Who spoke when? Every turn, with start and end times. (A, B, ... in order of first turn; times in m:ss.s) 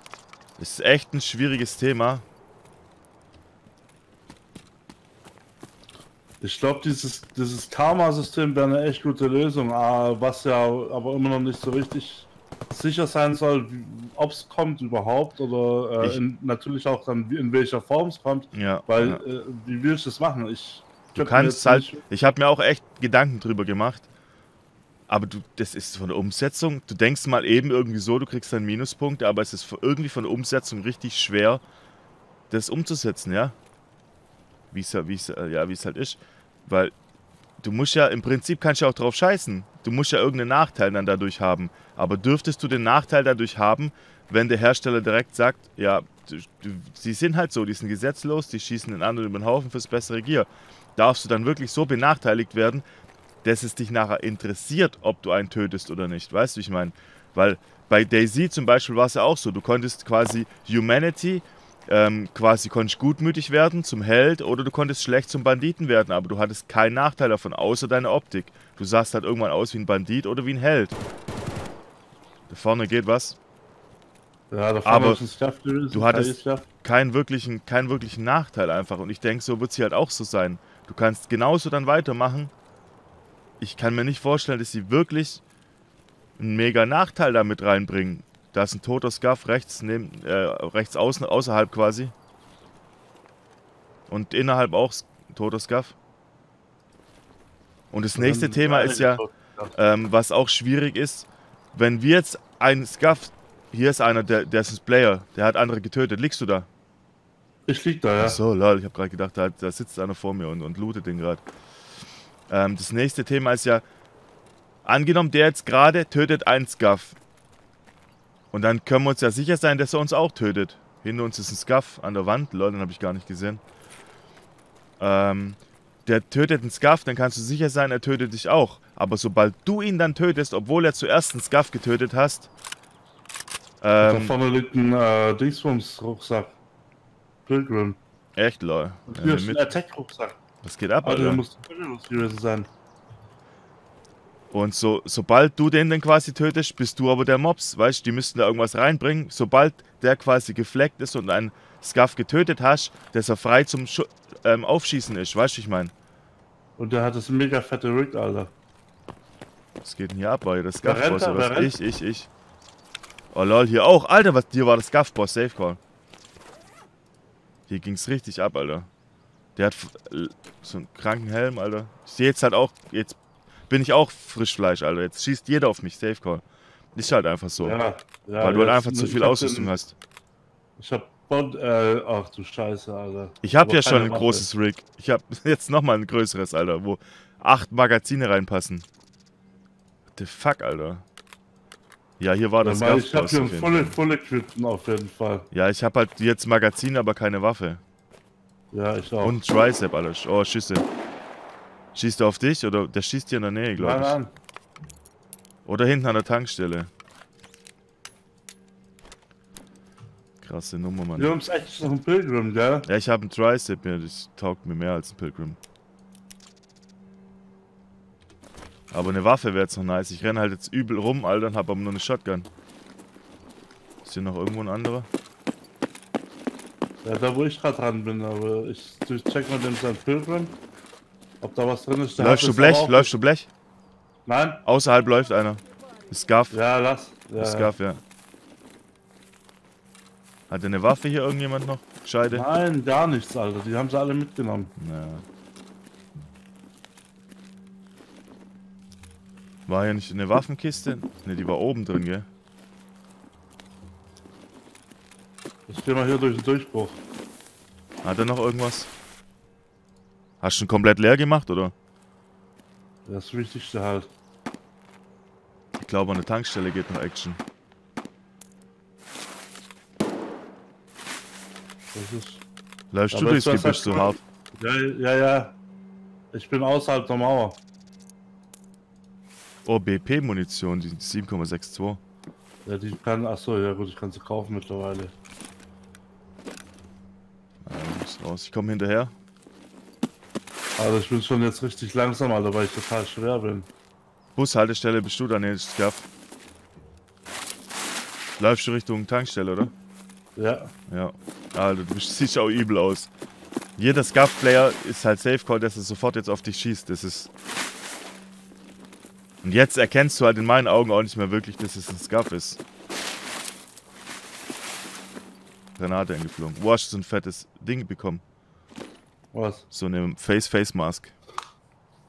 0:00.6-0:02.2 A
0:06.4-0:22.0 B
0:18.5-0:19.2 A
0:21.2-0:24.1 A
0:25.1-0:31.6 A
0:32.5-0:33.6 A
0:34.7-0:36.9 A
0:37.6-0:52.8 A
0:53.4-1:11.0 A
1:12.5-1:13.4 A
1:14.5-1:16.7 B
1:14.8-1:15.2 A
1:15.9-1:22.5 A
1:23.6-1:25.4 A
1:26.4-1:32.1 A
1:34.1-1:36.0 A
1:37.9-1:39.2 A
1:38.2-1:39.7 B
1:39.8-1:46.7 A
1:47.7-1:48.4 B
1:48.2-1:51.4 A
1:52.5-1:53.8 A
1:54.8-1:57.2 A
1:58.5-2:03.6 A
2:05.0-2:12.5 A
2:13.8-2:14.3 A
2:14.0-2:16.6 B
2:17.5-2:18.0 B
2:18.4-2:19.7 A
2:19.1-2:20.4 B
2:20.6-2:21.4 A
2:21.0-2:22.7 B
2:24.5-2:35.9 A
2:36.8-2:38.5 B
2:39.8-2:42.3 A
2:40.8-2:41.8 B
2:43.3-2:45.8 A
2:47.7-2:48.9 A
2:49.6-2:53.2 A
2:53.7-2:56.4 A
2:57.0-2:57.8 A
2:57.6-2:59.7 B
2:58.4-3:00.0 A
3:00.8-3:04.5 B
3:03.4-3:08.9 A
3:10.2-3:11.0 A
3:12.2-3:14.0 A
3:12.6-3:15.5 B
3:15.5-3:17.8 A
3:18.7-3:19.4 B
3:19.2-3:20.9 A
3:22.0-3:24.2 A
3:23.8-3:24.3 B
3:25.7-3:26.9 A
3:30.4-3:31.4 A
3:31.2-3:32.9 B
3:32.9-3:35.6 A
3:38.9-3:42.5 A
3:44.0-3:45.1 A
3:47.0-3:50.6 B
3:51.4-3:53.1 B
3:52.2-3:53.5 A
3:54.3-3:54.6 B
3:54.6-3:56.6 A
3:56.5-3:57.7 B
3:57.4-3:58.0 A
4:00.5-4:02.5 A
4:02.3-4:04.7 B
4:04.8-4:05.2 A
4:09.7-4:12.3 A
4:15.7-4:17.0 B
4:18.0-4:18.9 A
4:20.4-4:21.7 A
4:23.1-4:24.1 B
4:25.8-4:27.4 A
4:31.9-4:32.4 B
4:32.9-4:34.2 A
4:33.1-4:35.6 B
4:36.3-4:37.6 B
4:39.6-4:42.0 A
4:42.6-4:45.1 B
4:47.6-4:49.1 A
4:50.8-4:53.7 B
4:54.4-4:56.1 A
4:58.4-4:59.7 A
5:00.4-5:00.7 B
5:00.9-5:03.1 A
5:03.8-5:07.3 A
5:09.4-5:12.6 A
5:15.8-5:18.2 A
5:19.3-5:19.6 B
5:19.7-5:21.1 A